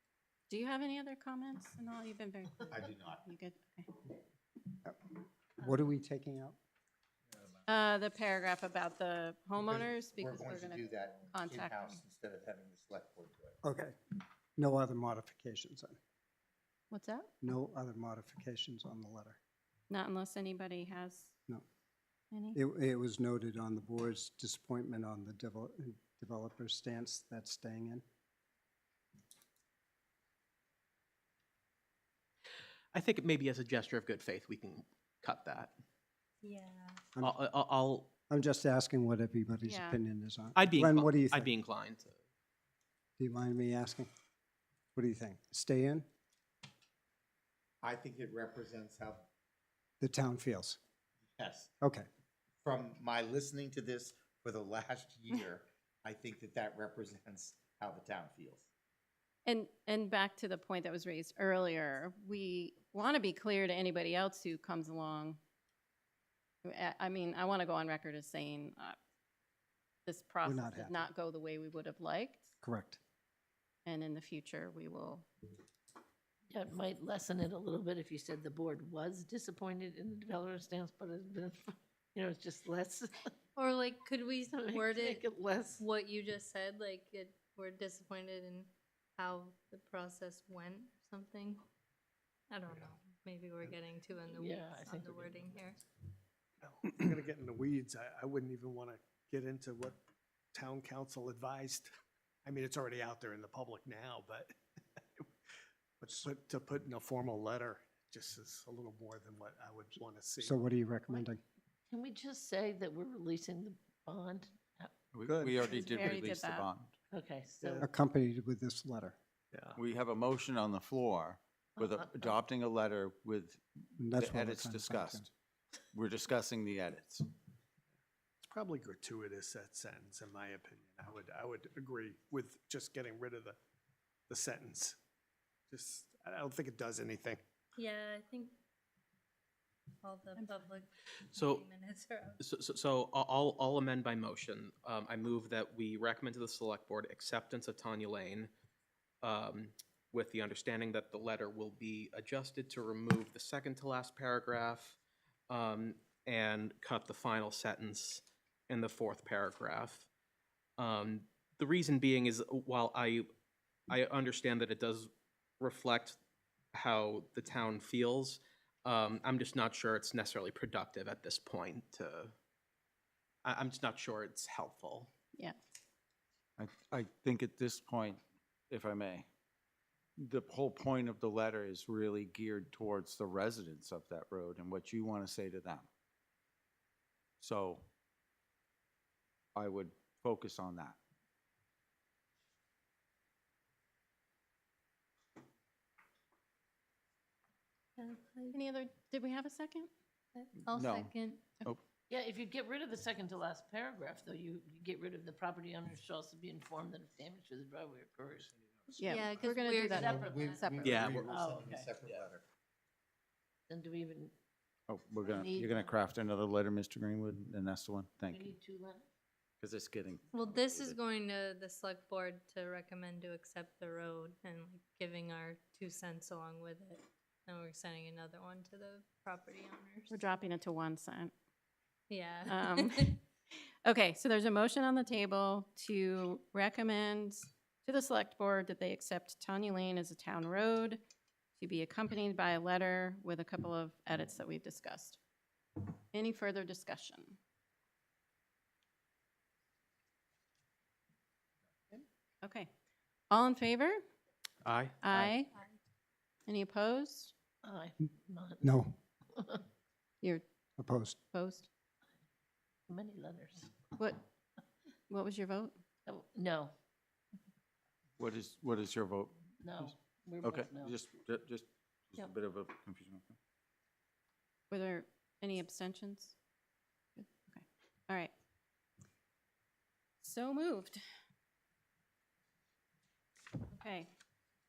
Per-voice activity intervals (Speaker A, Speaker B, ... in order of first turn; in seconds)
Speaker A: 0.5-3.9, 7.7-11.7, 16.9-17.3, 19.9-21.3, 59.5-65.4, 66.6-69.0, 70.0-72.5, 73.8-75.3, 115.7-116.7, 198.5-199.9, 209.0-211.0, 230.1-231.3, 232.5-233.2, 233.8-241.0, 241.6-245.2, 246.1-247.4, 252.4-252.7, 253.3-254.0, 255.0-255.6, 256.5-257.3, 261.3-261.7, 264.0-264.2, 265.1-265.8, 274.7-276.3, 277.2-278.3, 280.2-281.0, 283.7-284.1
Speaker B: 2.7-3.2, 9.7-13.6, 47.8-49.2, 51.4-51.7, 52.6-58.7, 209.9-212.4
Speaker C: 5.6-6.5, 13.6-13.9, 14.6-16.0, 17.4-19.4, 22.5-28.0, 38.3-41.5, 43.2-44.1, 44.9-46.0, 50.0-50.8, 51.8-52.1, 70.4-71.1, 72.6-73.0, 110.4-111.4, 117.8-119.2, 124.0-125.3, 258.6-258.9, 260.8-261.2
Speaker D: 32.9-35.7, 37.2-38.1, 40.5-42.2, 141.3-141.6, 142.4-148.5, 149.2-160.1, 160.8-163.3, 163.9-166.2, 166.7-172.3, 173.4-175.1, 210.8-211.3, 254.6-255.3
Speaker E: 36.4-37.0, 83.5-85.2, 85.8-91.6, 92.5-95.8, 137.8-138.5, 140.0-142.4, 198.0-198.6, 200.3-201.4, 209.0-210.8, 220.3-230.2, 232.1-233.2
Speaker F: 76.5-83.3, 84.5-85.8, 94.3-95.7, 111.9-115.0, 117.1-117.8, 121.9-122.3, 202.1-208.5, 210.0-211.9, 213.7-214.3, 215.2-215.9, 218.3-219.1, 257.6-258.7, 259.3-259.6, 262.9-264.0, 266.1-266.7, 269.6-270.9
Speaker G: 96.6-100.0, 100.5-101.9, 102.4-104.5, 106.0-110.6, 115.2-116.1, 117.6-117.9, 119.5-119.8, 128.4-133.6, 134.3-135.0, 135.7-137.4
Speaker H: 115.1-116.9, 119.8-125.3, 125.9-127.3, 176.6-179.3, 180.2-185.9, 187.4-187.9, 189.5-191.0, 200.7-201.1, 214.9-218.5, 219.6-221.0, 268.2-273.3